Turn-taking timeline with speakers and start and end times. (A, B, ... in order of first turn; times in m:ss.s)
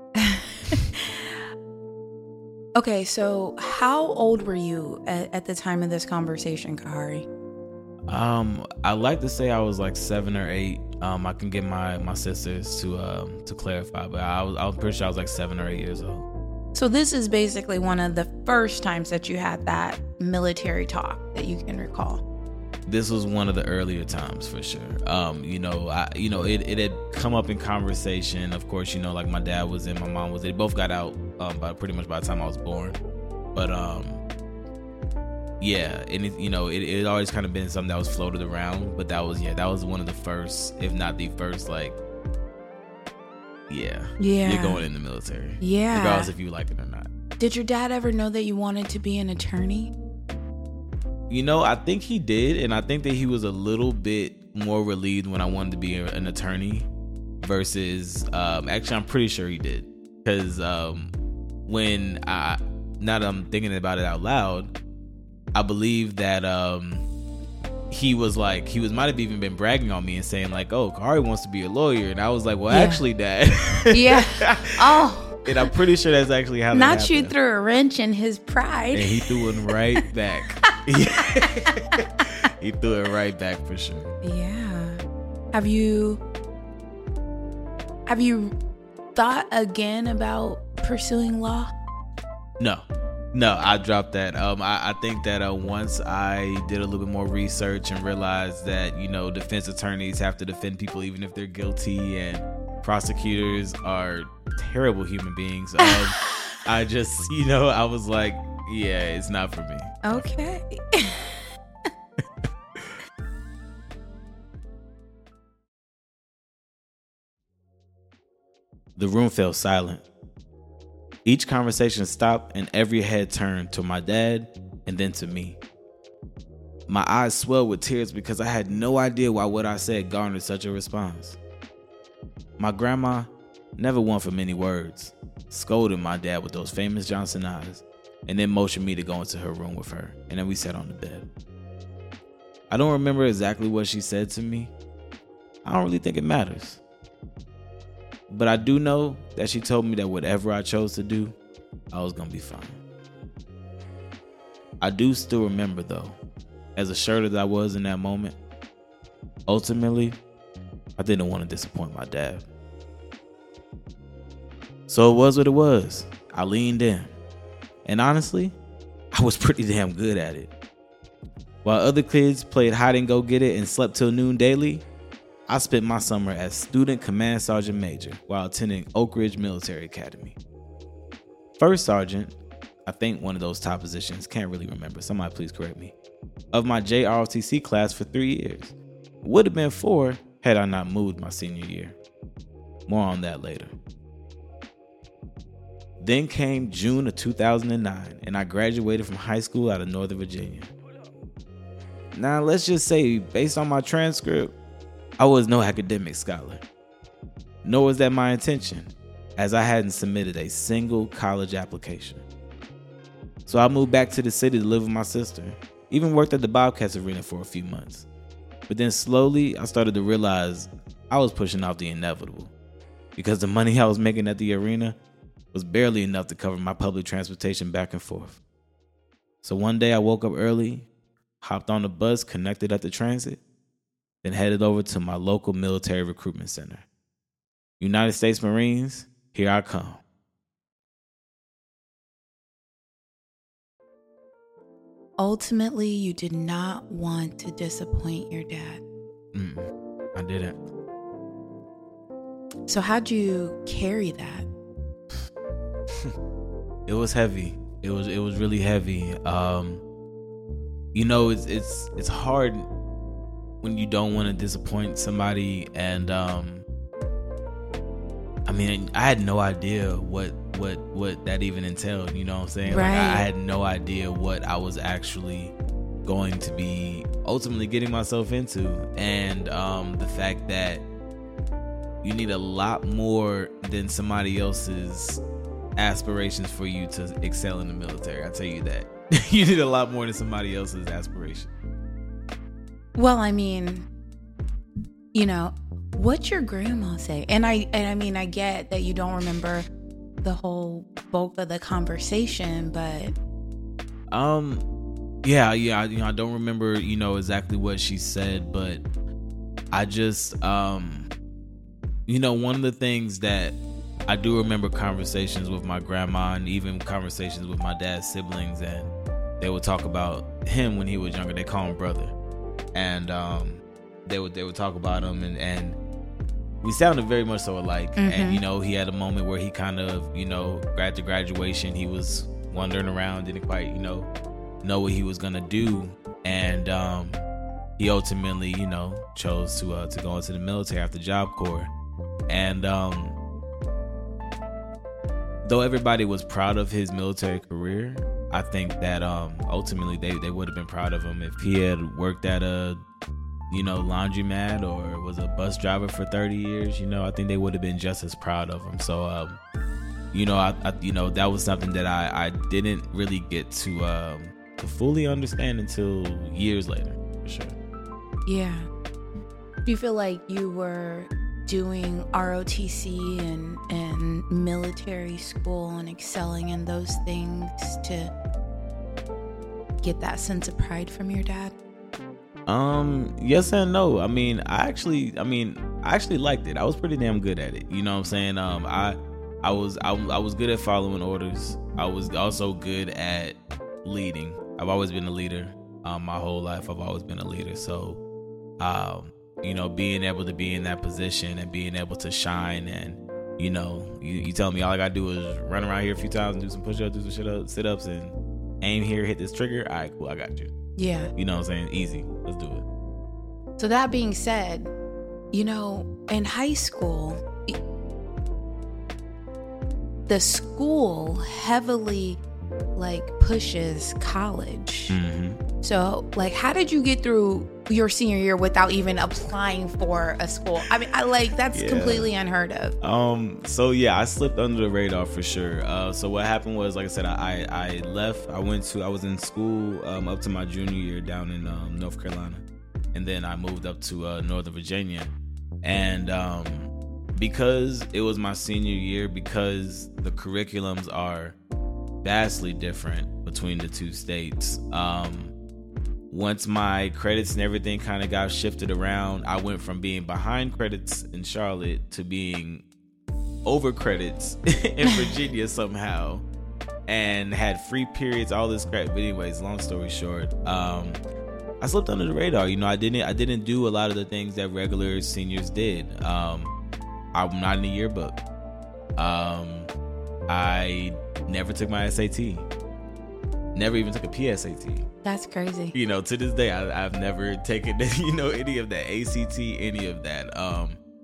0:00.2-0:01.0 A
0:02.8-0:07.2 A
0:08.1-0:16.2 B
0:16.7-0:22.2 A
0:22.8-0:33.0 B
0:33.5-0:34.2 B
0:35.6-0:42.0 B
0:43.7-0:47.1 B
0:44.2-0:44.8 A
0:45.6-0:46.3 A
0:47.4-0:49.9 A
0:51.3-0:56.9 B
0:57.4-1:01.1 B
1:01.6-1:04.7 B
1:05.5-1:07.1 B
1:07.9-1:14.5 B
1:12.7-1:13.0 A
1:13.9-1:15.7 A
1:15.4-1:17.3 B
1:16.7-1:19.3 A
1:18.9-1:24.1 B
1:24.2-1:25.0 A
1:25.5-1:26.2 A
1:28.1-1:28.5 A
1:29.1-1:31.7 A
1:32.6-1:50.3 B
1:45.8-1:46.2 A
1:50.0-1:51.4 A
1:59.0-2:00.0 B
2:01.2-2:05.6 B
2:06.9-2:11.4 B
2:12.6-2:21.3 B
2:22.7-2:24.7 B
2:25.6-2:26.8 B
2:28.3-2:31.4 B
2:31.9-2:32.8 B
2:34.8-2:36.2 B
2:36.8-2:38.4 B
2:39.5-2:40.2 B
2:41.0-2:42.4 B
2:44.9-2:47.1 B
2:47.8-2:48.6 B
2:49.1-2:50.5 B
2:51.6-2:54.8 B
2:55.5-3:00.4 B
3:01.6-3:05.9 B
3:06.5-3:12.0 B
3:12.9-3:13.7 B
3:16.0-3:20.7 B
3:22.1-3:24.5 B
3:25.2-3:26.6 B
3:27.6-3:32.2 B
3:33.5-3:38.1 B
3:38.7-3:42.5 B
3:43.2-3:45.0 B
3:45.5-3:48.4 B
3:49.4-3:50.9 B
3:51.4-3:53.4 B
3:54.2-3:56.8 B
3:57.8-4:00.0 B
4:05.2-4:08.8 A
4:09.3-4:10.6 B
4:12.7-4:14.5 A
4:16.9-4:19.8 B
4:20.9-4:22.7 B
4:23.6-4:26.6 B
4:28.5-4:35.5 B
4:32.6-4:33.3 A
4:36.0-4:40.8 B
4:42.0-4:45.2 B
4:45.8-4:51.5 B
4:53.0-4:53.9 A
4:55.1-4:59.6 A
5:00.2-5:03.1 A
5:04.1-5:04.6 B
5:05.2-5:08.8 B
5:09.7-5:11.1 B
5:12.0-5:13.6 B
5:14.1-5:22.1 B
5:22.7-5:25.8 B
5:26.6-5:34.1 B
5:28.0-5:28.4 A
5:34.6-5:37.2 B
5:37.8-5:41.7 B
5:42.3-5:43.2 B
5:45.4-5:52.8 B
5:53.5-5:59.4 B
6:00.1-6:07.5 B
6:08.2-6:08.7 A
6:09.6-6:18.1 A
6:19.8-6:21.5 A
6:22.5-6:38.0 B
6:38.6-6:50.5 B
6:50.8-6:51.1 A
6:51.2-6:52.6 B
6:53.6-6:54.7 A
6:55.3-6:57.6 A
7:00.1-7:02.2 A
7:02.7-7:04.9 A
7:04.9-7:05.4 B
7:05.6-7:12.7 A
7:11.5-7:12.1 B
7:12.8-7:31.4 B
7:32.0-7:35.3 B
7:36.1-7:42.6 B
7:43.4-7:46.2 B
7:46.9-7:51.0 B
7:51.6-7:56.5 B
7:57.1-7:58.2 B
7:59.0-7:59.7 B
8:00.3-8:02.5 B
8:03.5-8:04.8 B
8:05.0-8:05.7 A
8:05.7-8:10.8 B